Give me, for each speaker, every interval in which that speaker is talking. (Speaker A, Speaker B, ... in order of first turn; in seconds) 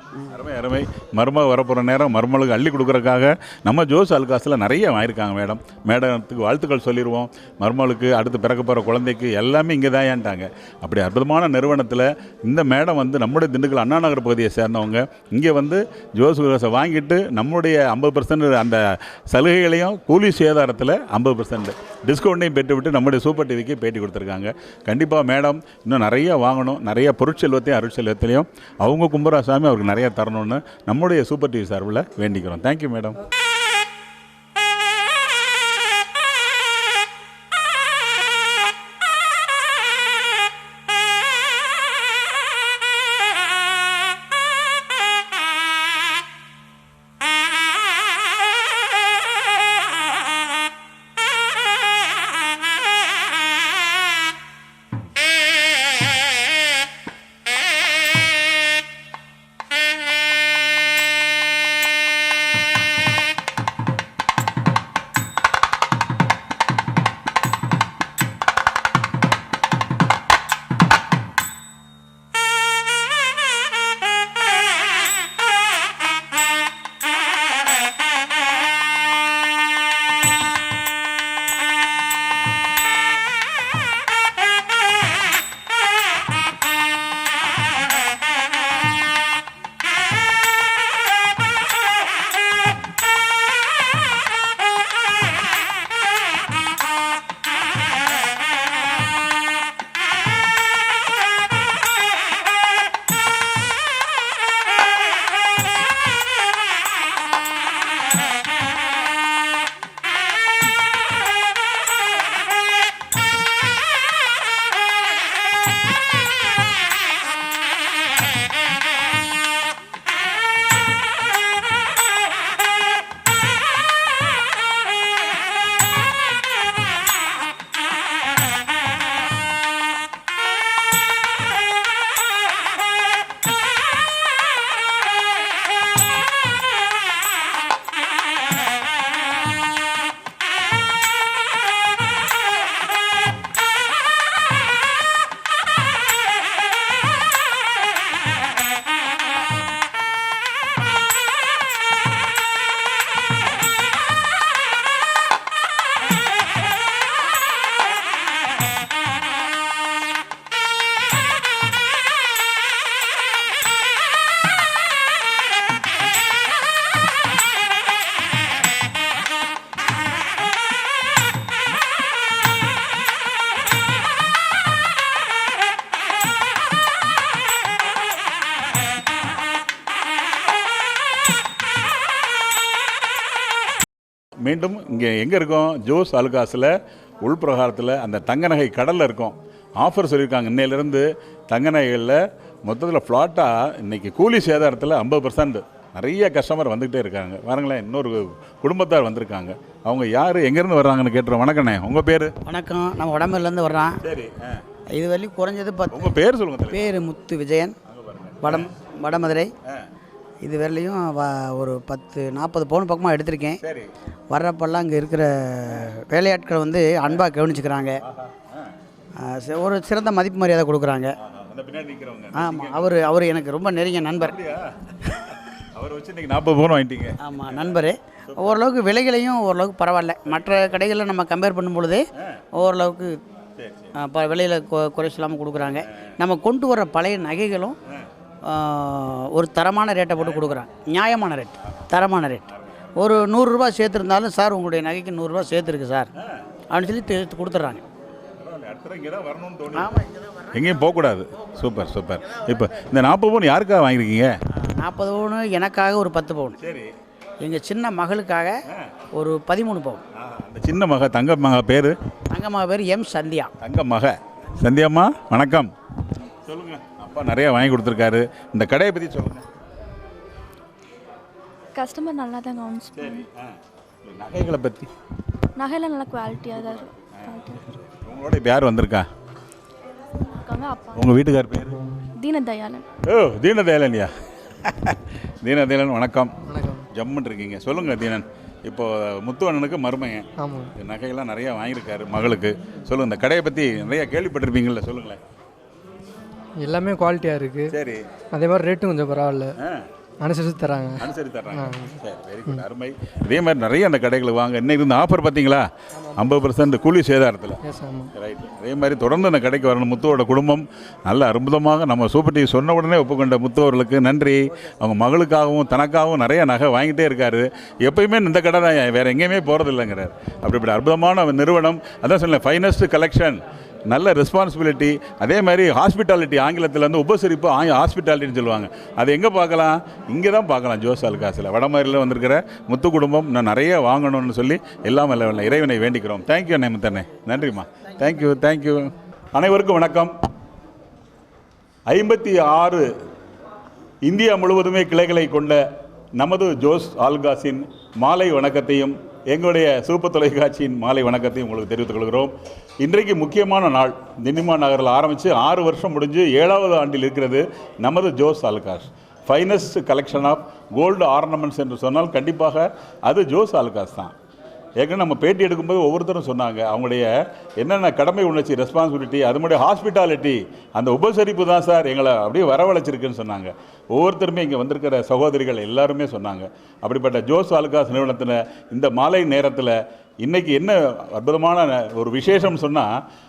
Speaker A: 0.3-33.2, 184.4-202.3, 204.0-204.6, 205.9-207.0, 207.9-208.7, 213.6-213.9, 218.0-218.7, 221.2-223.0, 224.2-228.6, 233.6-233.9, 240.2-240.5, 248.4-250.0, 250.5-254.3, 256.6-256.9, 260.1-262.0, 263.6-265.7, 266.5-269.5, 273.0-273.5, 274.1-274.9, 277.9-279.1, 280.9-281.8, 283.1-286.4, 286.9-295.2, 297.7-298.1, 299.6-299.9, 301.0-307.6, 308.1-340.1, 341.9-342.9, 344.0-345.6, 346.1-364.1, 364.8-367.1, 367.6-383.0
Speaker B: 202.5-204.0, 204.9-206.1, 206.7-207.8, 208.4-209.5, 210.4-213.6, 214.3-218.0, 219.2-221.1, 222.3-224.4, 227.2-233.2, 234.0-237.8, 238.4-242.4, 243.0-246.1, 246.7-247.8, 249.8-250.1, 254.6-256.6, 257.4-258.6, 259.1-260.0, 262.3-263.5
Speaker C: 271.8-273.3, 275.6-277.8, 280.4-281.1, 282.1-282.8
Speaker D: 286.4-286.9, 290.4-290.7, 296.6-297.8, 298.3-299.6, 300.2-302.0, 307.6-308.1